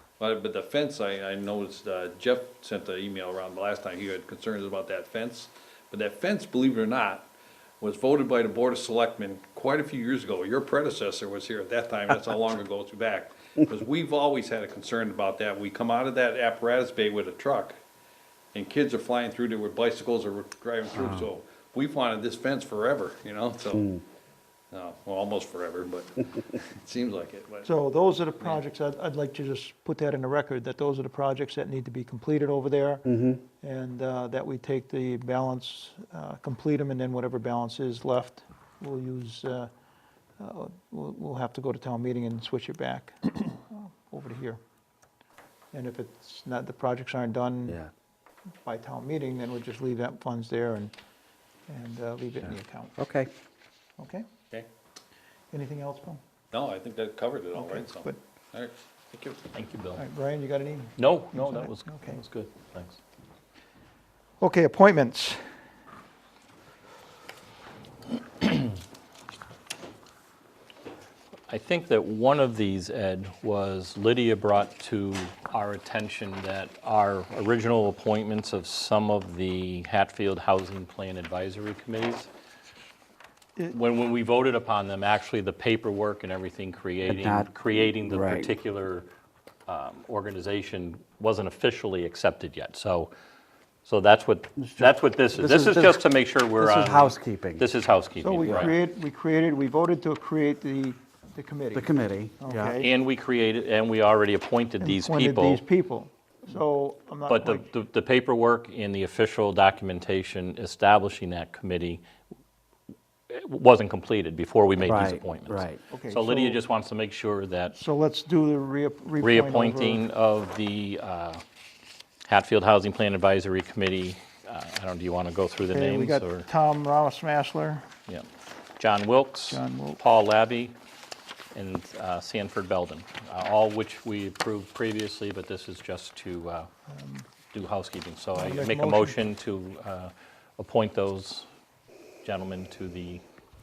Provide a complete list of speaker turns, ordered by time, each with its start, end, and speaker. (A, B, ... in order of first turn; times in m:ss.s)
0:00.2-0:07.3 A
0:07.8-0:17.8 A
0:18.5-0:23.9 A
0:21.0-0:21.2 B
0:23.7-0:24.0 B
0:24.7-0:27.7 A
0:27.6-0:33.0 C
0:33.0-0:33.4 B
0:33.6-0:39.7 C
0:40.4-0:44.6 C
0:45.7-0:47.8 C
0:48.6-0:50.9 C
0:51.7-0:52.9 C
0:53.0-0:53.3 B
0:54.0-0:54.2 C
0:55.5-0:56.2 C
0:56.5-0:59.5 A
0:57.5-0:58.2 C
0:59.5-1:00.0 D
1:00.0-1:02.2 C
1:01.0-1:03.0 D
1:04.4-1:05.4 C
1:11.5-1:22.3 D
1:23.7-1:29.1 D
1:27.0-1:28.5 B
1:29.7-1:33.1 D
1:33.8-1:38.7 D
1:34.6-1:36.0 B
1:36.6-1:37.6 B
1:38.2-1:42.9 C
1:41.7-1:42.8 B
1:42.8-1:45.6 D
1:44.8-1:47.7 C
1:47.3-1:52.0 D
1:53.3-1:57.7 D
1:54.8-1:55.8 B
1:55.9-1:56.6 C
1:57.7-2:00.0 C
1:59.2-2:01.4 D
2:02.3-2:06.4 D
2:05.7-2:07.9 C
2:08.8-2:10.7 D
2:09.5-2:10.0 C
2:11.5-2:16.7 D
2:16.9-2:17.2 C
2:17.5-2:21.4 D
2:18.3-2:19.2 C
2:22.2-2:23.2 D